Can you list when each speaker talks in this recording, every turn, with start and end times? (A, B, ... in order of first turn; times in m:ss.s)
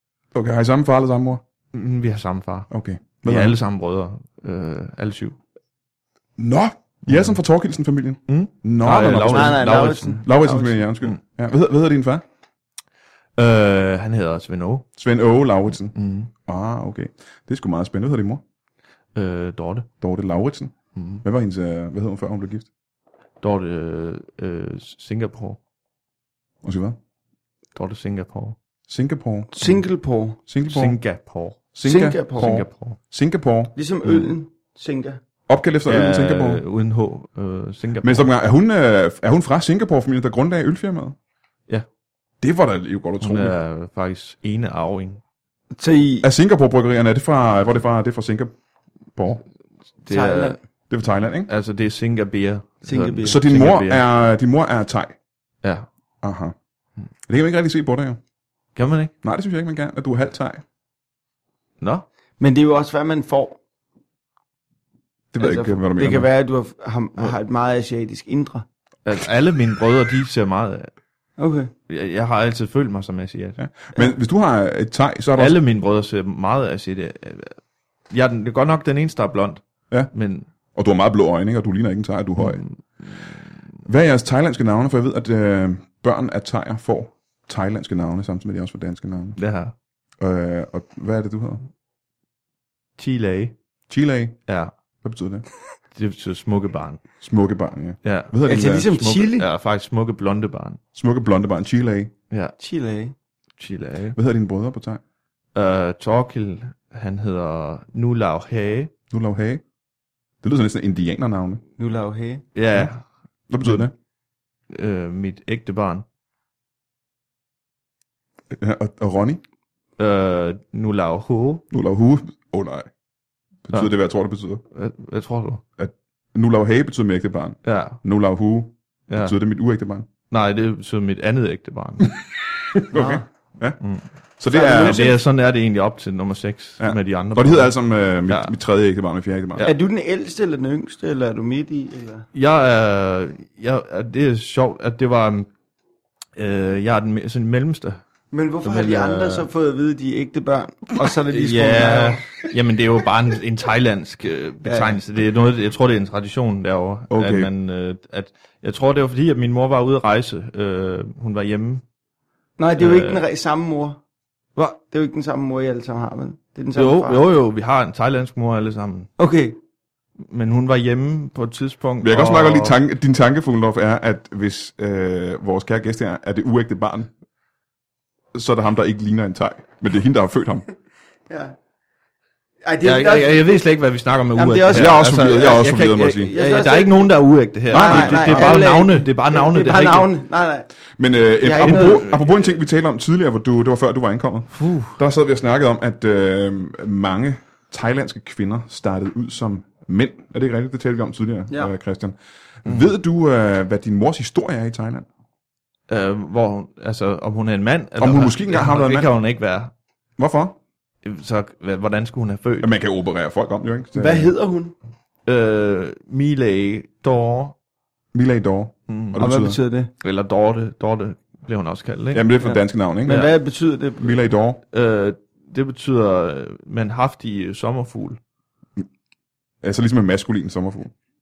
0:00.3-0:01.4 A
0:01.7-0:02.7 B
0:02.7-0:03.6 A
0:03.2-0:05.4 B
0:06.4-0:12.2 A
0:07.1-0:07.4 B
0:08.3-0:10.2 B
0:09.3-0:10.9 C
0:13.4-0:14.9 B
0:15.0-0:15.9 A
0:15.9-0:16.3 B
0:16.5-0:18.4 A
0:19.2-0:19.9 B
0:20.0-0:22.7 A
0:21.0-0:21.2 B
0:23.4-0:25.6 B
0:26.6-0:27.0 A
0:27.8-0:28.6 B
0:28.9-0:29.5 A
0:29.5-0:30.4 C
0:30.5-0:31.0 A
0:30.6-0:31.6 B
0:31.7-0:34.2 A
0:31.8-0:32.5 C
0:32.3-0:33.0 B
0:33.8-0:35.2 C
0:35.5-0:36.6 A
0:35.9-0:38.3 B
0:38.0-0:41.2 A
0:42.4-0:43.6 A
0:43.2-0:45.2 B
0:45.8-0:46.3 C
0:46.2-0:48.5 A
0:49.2-0:49.4 A
0:50.1-0:50.6 C
0:50.1-0:50.6 B
0:50.9-0:51.5 A
0:51.5-0:54.0 B
0:52.8-0:53.4 C
0:53.2-0:55.2 A
0:56.2-0:56.5 A
0:57.3-0:58.2 A
0:58.8-0:59.1 B
0:59.2-1:00.6 A
1:01.8-1:02.1 B
1:02.4-1:03.6 C
1:05.3-1:06.3 A
1:05.4-1:08.6 C
1:09.0-1:10.9 B
1:11.4-1:11.7 C
1:11.9-1:13.6 B
1:13.6-1:15.6 A
1:15.4-1:17.6 B
1:18.1-1:20.5 B
1:20.8-1:22.6 A
1:22.4-1:23.4 B
1:23.9-1:29.4 A
1:29.4-1:29.7 B
1:30.2-1:31.6 A
1:33.0-1:33.6 B
1:33.9-1:34.4 A
1:34.5-1:34.7 B
1:35.0-1:35.5 A
1:35.9-1:37.0 B
1:37.2-1:38.9 A
1:38.0-1:40.8 B
1:38.4-1:39.5 C
1:40.9-1:42.1 A
1:42.6-1:43.1 C
1:43.6-1:44.2 B
1:44.2-1:45.0 A
1:45.6-1:48.9 B
1:49.1-1:49.6 A
1:50.4-1:51.6 A
1:51.8-1:52.5 C
1:52.6-1:53.0 B
1:53.5-1:53.9 A
1:54.7-1:56.0 B
1:58.5-1:59.4 A
2:00.0-2:01.6 B
2:01.7-2:02.9 A
2:03.7-2:04.6 A
2:04.7-2:05.6 B
2:05.8-2:10.1 A
2:07.6-2:08.0 B
2:09.1-2:09.3 B
2:10.3-2:12.2 B
2:12.7-2:13.8 A
2:12.9-2:13.2 C
2:13.8-2:14.1 B
2:14.4-2:15.1 A
2:14.5-2:15.2 C
2:14.6-2:17.7 B
2:16.8-2:19.6 A
2:18.3-2:18.5 B
2:19.6-2:22.3 C
2:22.3-2:25.5 B
2:26.4-2:28.0 B
2:28.3-2:32.4 C
2:28.6-2:29.5 B
2:31.3-2:41.8 B
2:34.6-2:35.0 C
2:37.1-2:37.5 A
2:42.6-2:44.0 C
2:42.8-2:43.2 B
2:44.9-2:47.2 C
2:46.8-2:49.1 B
2:49.2-2:49.6 C
2:50.2-2:52.8 B
2:52.0-2:57.1 A
2:58.3-3:00.7 A
3:01.3-3:01.6 C
3:02.6-3:03.6 C
3:02.8-3:10.1 B
3:04.3-3:05.7 C
3:04.7-3:06.3 A
3:06.2-3:07.2 C
3:07.7-3:10.7 C
3:07.7-3:08.6 A
3:11.0-3:25.1 A
3:11.4-3:12.1 C
3:11.6-3:12.5 B
3:14.5-3:15.0 B
3:25.9-3:29.7 B
3:28.0-3:29.1 A
3:30.2-3:30.6 A
3:31.0-3:32.7 B
3:32.6-3:34.3 A
3:34.0-3:34.8 C
3:35.3-3:37.6 B
3:38.1-3:39.6 A
3:38.9-3:39.2 B
3:39.2-3:39.9 C
3:40.0-3:42.3 B
3:42.1-3:43.3 A
3:42.4-3:44.2 C
3:43.0-3:43.3 B
3:44.0-3:44.6 A
3:44.7-3:48.2 B
3:49.6-3:50.9 A